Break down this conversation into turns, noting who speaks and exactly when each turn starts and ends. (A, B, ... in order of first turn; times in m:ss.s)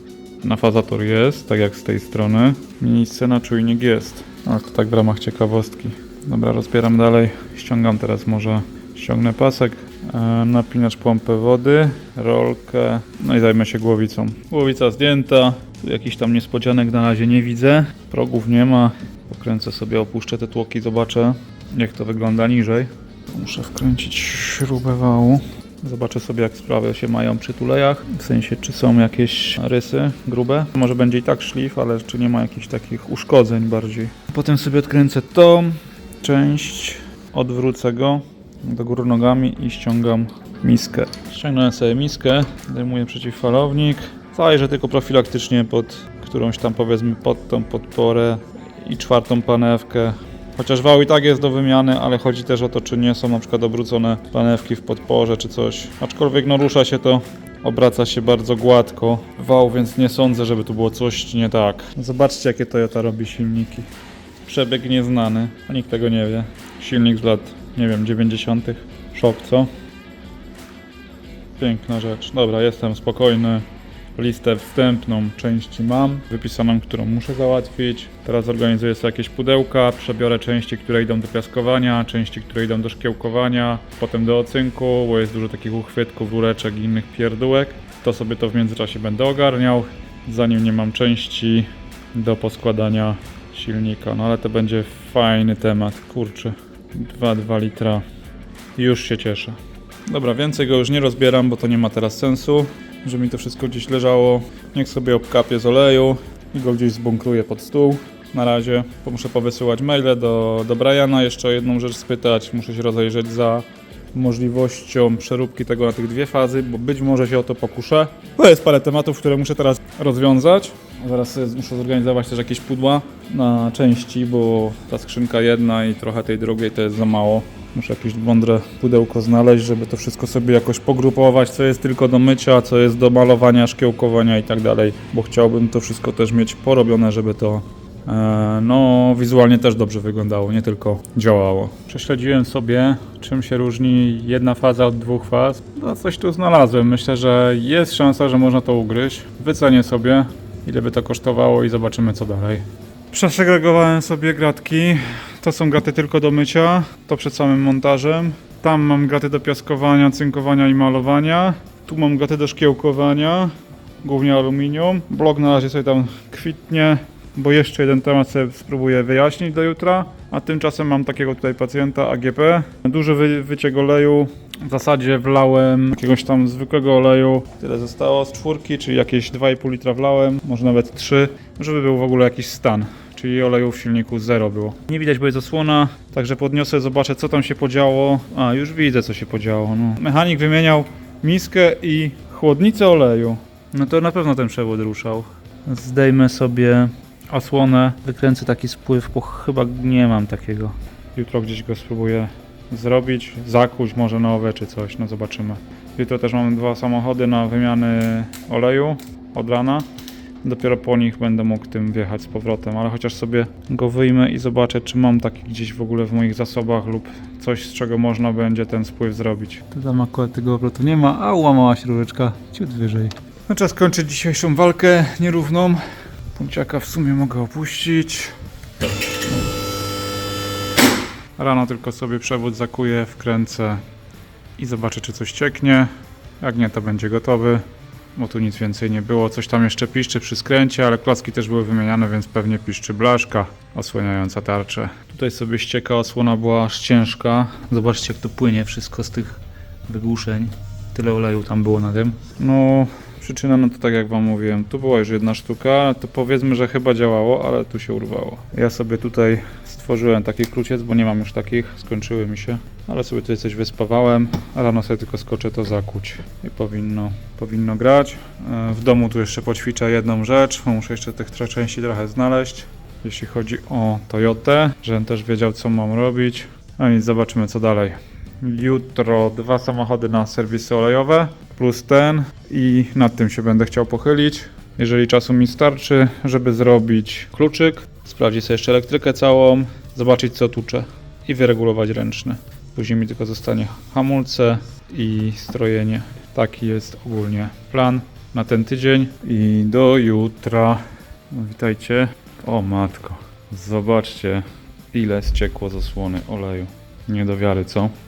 0:00.4-1:03.9 A
1:04.4-1:09.7 A
1:11.6-1:38.0 A
1:38.8-2:43.5 A
2:44.0-3:29.9 A
3:30.4-3:45.8 A
3:46.4-3:48.4 A
3:51.4-3:53.8 A
3:54.6-3:57.6 A
3:58.2-5:07.9 A